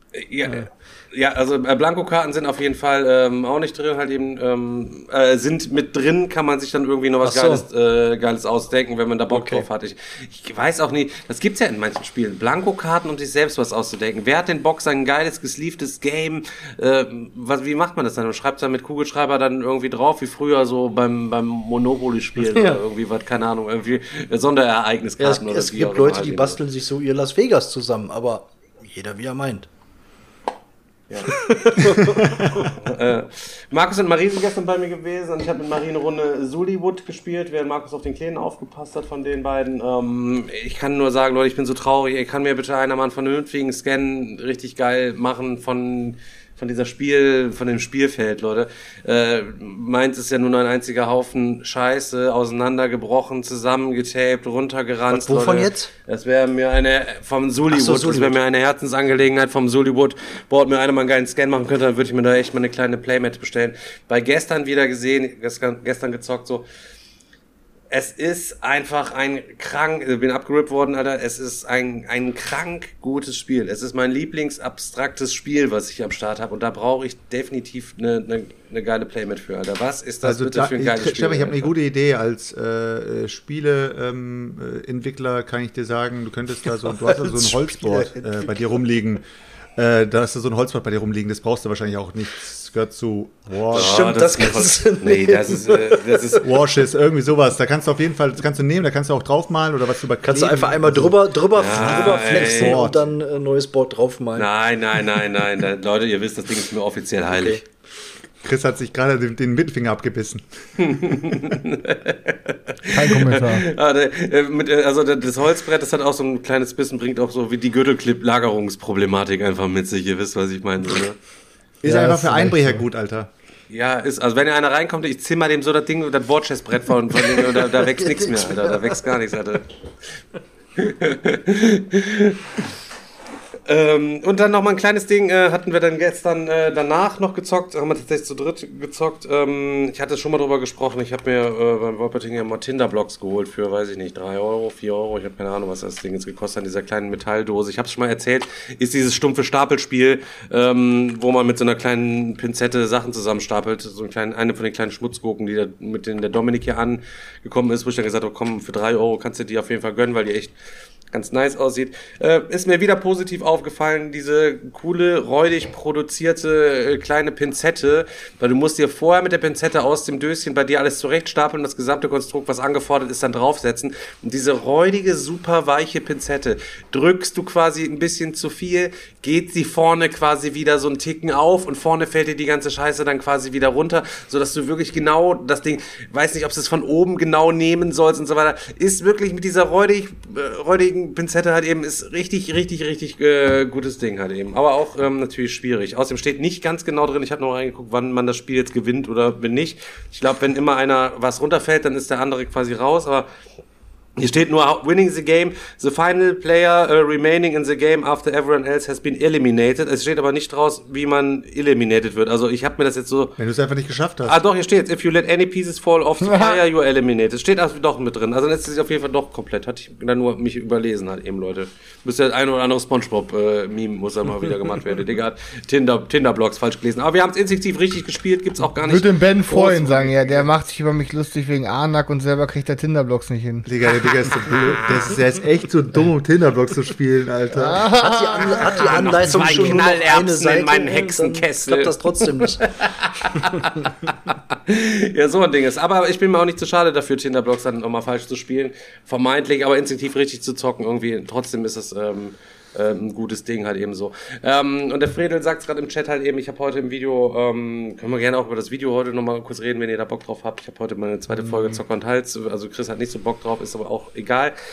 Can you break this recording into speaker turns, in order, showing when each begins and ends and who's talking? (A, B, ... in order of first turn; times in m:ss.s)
0:00.2-0:26.6 A
0:07.2-0:07.6 B
0:09.3-0:09.7 B
0:22.4-0:22.8 B
0:25.2-0:29.7 B
0:31.1-1:06.6 A
0:31.3-0:32.8 B
0:32.2-0:32.5 C
0:55.1-0:55.9 B
0:57.7-0:58.4 B
1:07.9-1:21.7 A
1:20.2-1:29.2 C
1:26.9-1:28.5 B
1:29.8-1:34.1 C
1:33.7-1:36.4 B
1:33.7-1:36.6 A
1:36.4-1:43.1 C
1:40.2-1:44.5 B
1:41.5-1:42.9 A
1:44.4-1:47.6 A
1:47.3-1:47.6 B
1:48.4-1:51.6 C
1:50.8-2:01.2 A
1:52.9-1:53.7 D
2:01.8-2:03.3 C
2:01.8-2:02.8 D
2:03.7-2:09.7 A
2:07.3-2:09.2 B
2:10.8-2:12.4 A
2:13.7-2:40.5 A
2:41.1-3:23.3 A
3:24.2-3:33.3 A
3:33.4-3:34.4 C
3:34.2-3:50.5 A
3:36.2-3:36.6 D
3:48.8-3:53.7 D
3:53.6-3:58.0 C
3:54.1-3:55.2 A
3:57.5-3:59.8 D
3:57.8-4:02.6 B
3:58.6-4:24.5 A